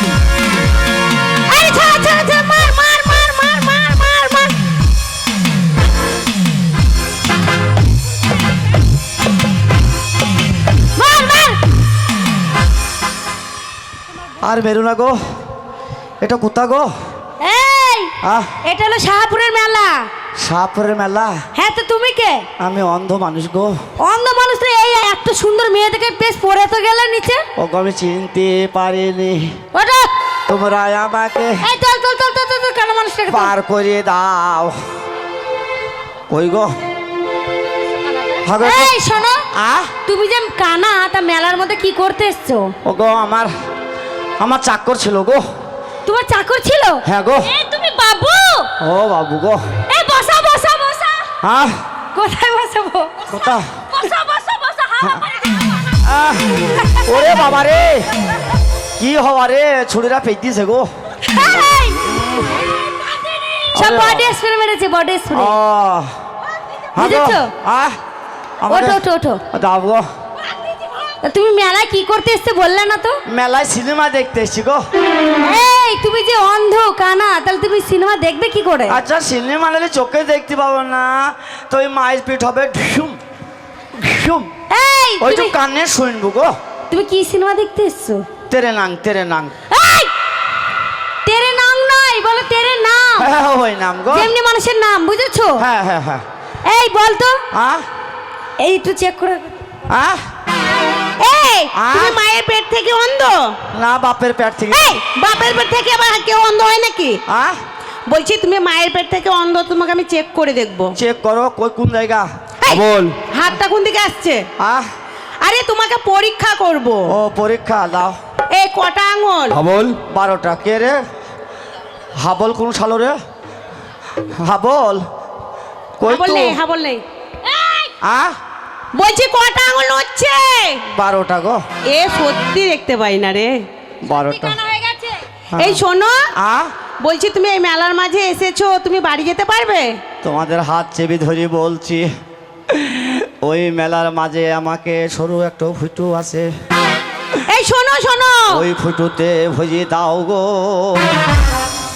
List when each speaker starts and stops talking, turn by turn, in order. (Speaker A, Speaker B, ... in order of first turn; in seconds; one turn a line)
Speaker A: 1.5-4.5
Speaker B: 10.9-11.6
Speaker C: 14.4-15.2
Speaker C: 16.2-16.9
Speaker B: 17.4-18.1
Speaker C: 18.2-18.5
Speaker B: 18.6-20.1
Speaker C: 20.4-21.4
Speaker B: 21.5-22.4
Speaker C: 22.6-23.7
Speaker B: 24.0-27.4
Speaker C: 27.6-29.6
Speaker B: 29.7-30.1
Speaker C: 30.5-31.6
Speaker B: 31.6-33.5
Speaker C: 33.3-34.8
Speaker C: 36.3-36.7
Speaker C: 38.4-38.9
Speaker B: 38.6-39.4
Speaker C: 39.5-39.9
Speaker B: 40.0-42.7
Speaker C: 42.8-43.5
Speaker C: 44.4-45.4
Speaker B: 46.0-48.7
Speaker C: 47.0-47.5
Speaker C: 48.8-49.6
Speaker B: 49.9-51.3
Speaker C: 51.4-51.8
Speaker B: 52.1-53.1
Speaker C: 53.3-53.6
Speaker B: 53.9-55.5
Speaker C: 56.0-58.1
Speaker B: 56.8-57.1
Speaker C: 59.0-60.9
Speaker B: 61.3-65.5
Speaker C: 63.7-64.3
Speaker C: 65.3-66.1
Speaker C: 66.9-68.0
Speaker B: 67.0-67.5
Speaker C: 68.6-70.0
Speaker B: 68.7-69.4
Speaker B: 71.2-73.2
Speaker C: 73.3-74.8
Speaker B: 75.4-79.0
Speaker C: 78.9-83.2
Speaker C: 84.0-84.5
Speaker B: 84.7-85.5
Speaker C: 85.2-86.5
Speaker B: 86.9-88.2
Speaker C: 88.5-89.5
Speaker B: 89.7-90.1
Speaker B: 91.2-93.3
Speaker C: 93.2-94.3
Speaker B: 94.1-95.6
Speaker C: 95.6-96.2
Speaker B: 96.7-97.4
Speaker C: 97.5-97.8
Speaker B: 98.6-99.5
Speaker C: 99.9-100.2
Speaker A: 101.2-103.5
Speaker C: 101.7-102.2
Speaker C: 103.7-105.0
Speaker A: 104.7-107.2
Speaker C: 107.3-107.6
Speaker A: 108.1-110.9
Speaker C: 110.9-113.1
Speaker A: 113.3-114.4
Speaker C: 114.6-114.9
Speaker A: 115.4-117.1
Speaker C: 117.1-118.1
Speaker A: 118.5-119.6
Speaker C: 119.5-121.0
Speaker C: 122.2-123.2
Speaker C: 124.4-125.0
Speaker C: 126.0-126.6
Speaker A: 126.0-127.0
Speaker B: 127.5-127.9
Speaker C: 128.0-128.3
Speaker A: 128.9-130.8
Speaker C: 130.9-131.6
Speaker A: 131.9-133.6
Speaker C: 134.0-134.6
Speaker B: 134.0-135.2
Speaker C: 135.5-135.8
Speaker A: 135.6-136.2
Speaker C: 136.3-136.7
Speaker A: 137.0-139.9
Speaker C: 140.2-142.1
Speaker C: 142.7-146.5
Speaker A: 147.5-148.6
Speaker C: 148.5-151.1